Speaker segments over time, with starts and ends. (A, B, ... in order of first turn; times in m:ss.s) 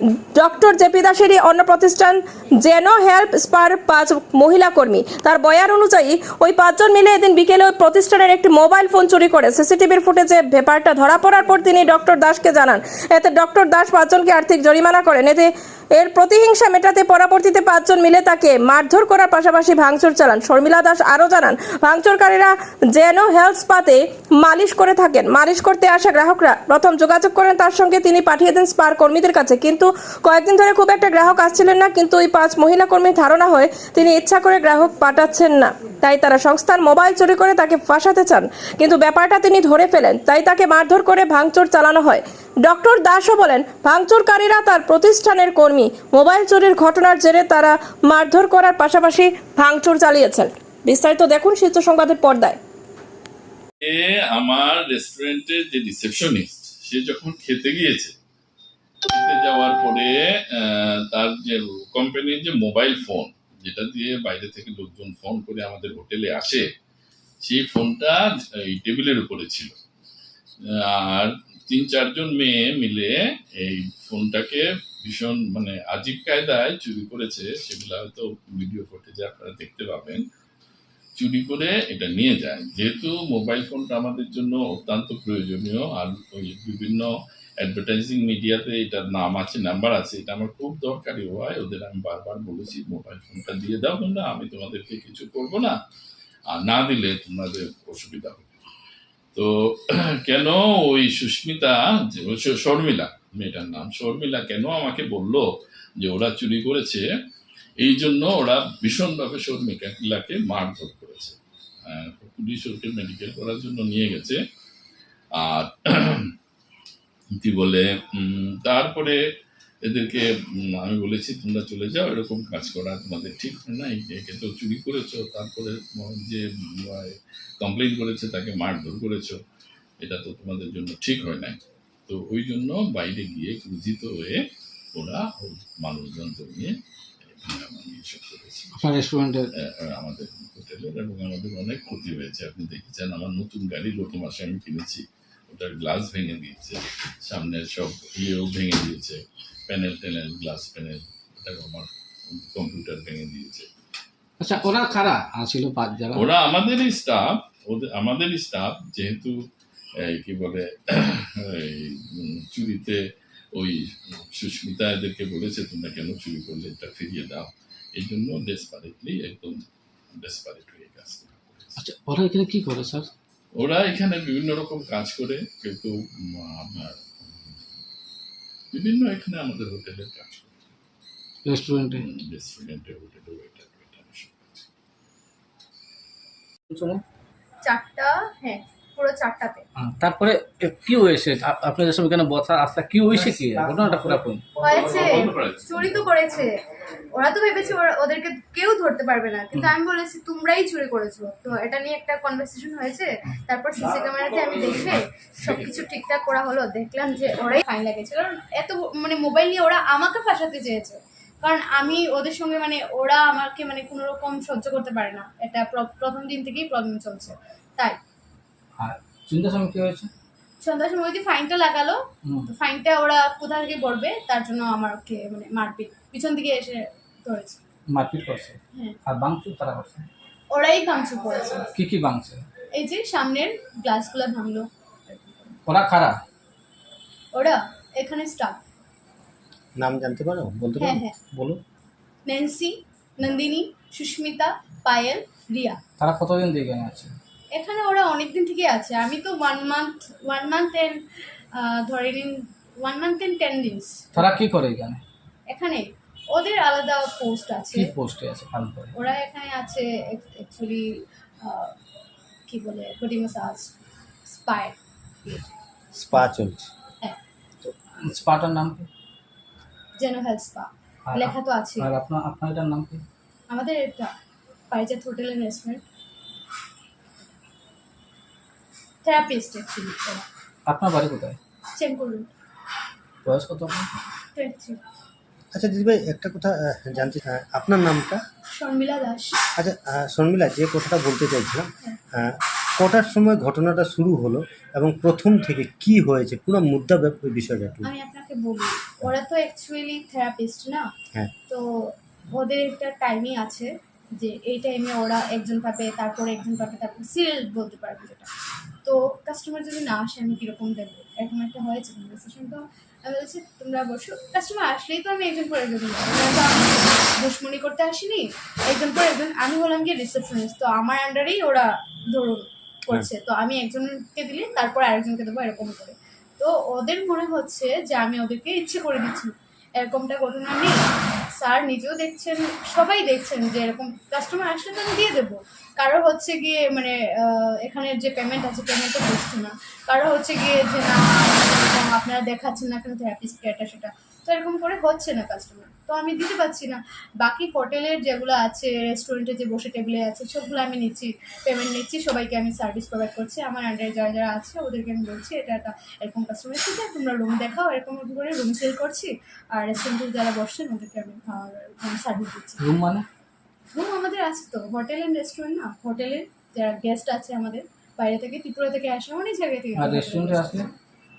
0:00.3-0:52.6 A
0:53.8-0:58.1 B
0:59.1-1:06.7 B
1:07.4-1:09.7 B
1:10.7-1:20.2 B
1:21.2-1:35.8 B
1:36.5-1:38.6 B
1:39.3-1:45.5 B
1:46.0-1:47.0 B
1:47.8-1:54.4 B
1:55.4-1:56.3 B
1:57.4-1:59.2 B
1:59.8-2:09.4 B
2:10.0-2:14.4 B
2:15.0-2:18.8 B
2:18.7-2:19.5 C
2:19.6-2:33.7 B
2:34.4-2:36.3 C
2:36.1-2:39.4 B
2:40.0-2:43.0 B
2:43.5-2:51.8 B
2:51.8-2:53.1 C
2:53.5-2:57.6 B
2:58.7-3:00.5 B
3:01.4-3:02.1 C
3:01.9-3:04.6 B
3:06.7-3:07.0 C
3:07.6-3:09.6 D
3:09.8-3:14.6 C
3:14.6-3:16.5 D
3:14.6-3:15.7 B
3:17.1-3:38.0 D
3:38.8-3:40.1 C
3:40.6-3:47.6 D
3:42.2-3:42.5 C
3:47.9-3:50.1 C
3:50.5-3:51.7 D
3:51.7-3:52.5 C
3:52.7-3:55.6 D
3:55.6-3:56.2 C
3:57.3-3:58.6 D
3:59.8-4:01.6 E
4:00.8-4:01.1 D
4:02.2-4:05.8 D
4:06.0-4:07.1 C
4:07.5-4:11.0 D
4:11.5-4:14.2 D
4:14.1-4:15.0 C
4:15.5-4:17.9 D
4:17.7-4:19.0 C
4:18.9-4:21.7 D
4:22.5-4:23.7 D
4:24.3-4:24.8 D
4:25.9-4:26.7 E
4:27.6-4:28.9 C
4:30.0-4:31.9 D
4:31.0-4:33.0 C
4:33.5-4:34.1 D
4:34.7-4:35.8 D
4:39.0-4:40.2 D
4:40.6-4:41.4 C
4:41.8-4:42.3 D
4:43.2-4:43.9 C
4:44.3-4:44.8 D
4:45.5-4:48.2 E
4:48.5-4:49.4 D
4:49.6-4:57.9 E
4:57.8-5:00.9 D
5:01.5-5:08.3 D
5:08.8-5:30.8 D
5:31.3-6:02.6 D
6:02.6-6:03.0 C
6:03.7-6:10.7 D
6:09.7-6:10.7 C